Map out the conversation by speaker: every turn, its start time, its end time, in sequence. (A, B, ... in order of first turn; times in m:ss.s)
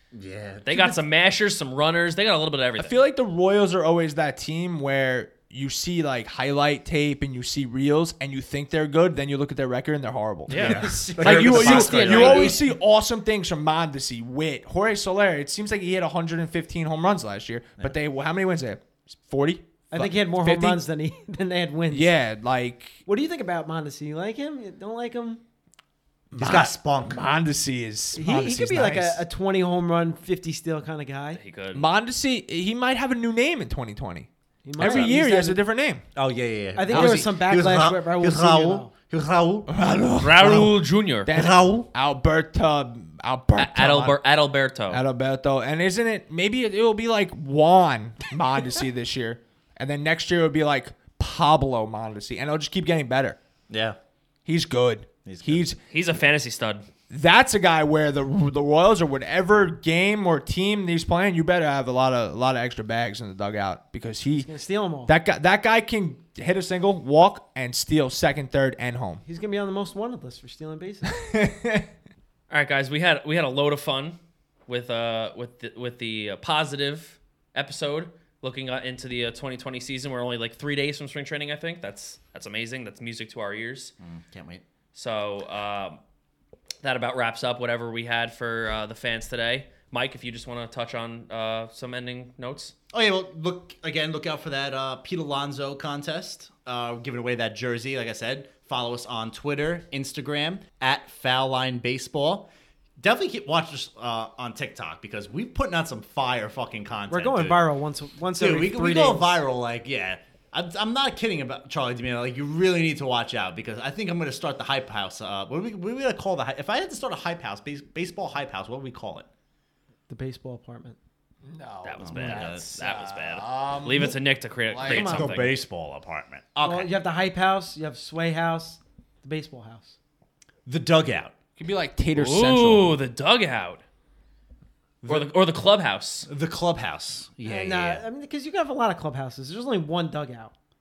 0:00.1-0:01.0 A
0:00.6-0:03.0 B
0:02.8-0:20.8 C
0:10.5-0:10.9 B
0:10.5-0:12.6 A
0:10.6-0:12.6 D
0:19.9-0:22.1 D
0:21.9-0:23.0 C
0:23.1-0:25.4 D
0:26.3-0:29.2 C
0:26.4-0:27.2 A
0:28.2-0:31.4 D
0:31.4-0:31.9 B
0:31.7-0:36.0 C
0:34.6-0:35.6 D
0:34.8-0:35.1 A
0:36.2-0:39.8 A
0:36.8-0:38.9 D
0:36.9-0:37.3 C
0:39.7-0:44.2 C
0:40.2-0:41.3 B
0:40.4-0:40.7 A
0:41.3-0:41.9 A
0:43.6-0:45.0 B
0:44.9-0:53.4 C
0:53.7-0:54.0 A
0:54.5-0:55.8 C
0:55.3-0:55.6 A
0:55.9-0:56.8 B
0:57.1-1:04.5 C
1:04.4-1:05.1 D
1:05.1-1:09.2 C
1:09.2-1:11.2 D
1:11.1-1:11.9 C
1:12.5-1:23.9 B
1:24.0-1:24.6 A
1:24.9-1:26.0 B
1:26.8-1:32.7 B
1:32.9-1:47.6 A
1:47.1-1:49.4 D
1:48.4-1:59.3 A
2:00.1-2:01.0 D
2:01.4-2:05.2 C
2:01.8-2:05.6 B
2:02.0-2:02.7 A
2:04.8-2:05.4 D
2:04.9-2:06.9 A
2:06.6-2:10.0 D
2:10.7-2:11.4 A
2:11.6-2:13.0 C
2:12.2-2:13.8 B
2:15.0-2:15.3 A
2:15.0-2:16.3 B
2:16.3-2:18.0 A
2:17.4-2:20.5 D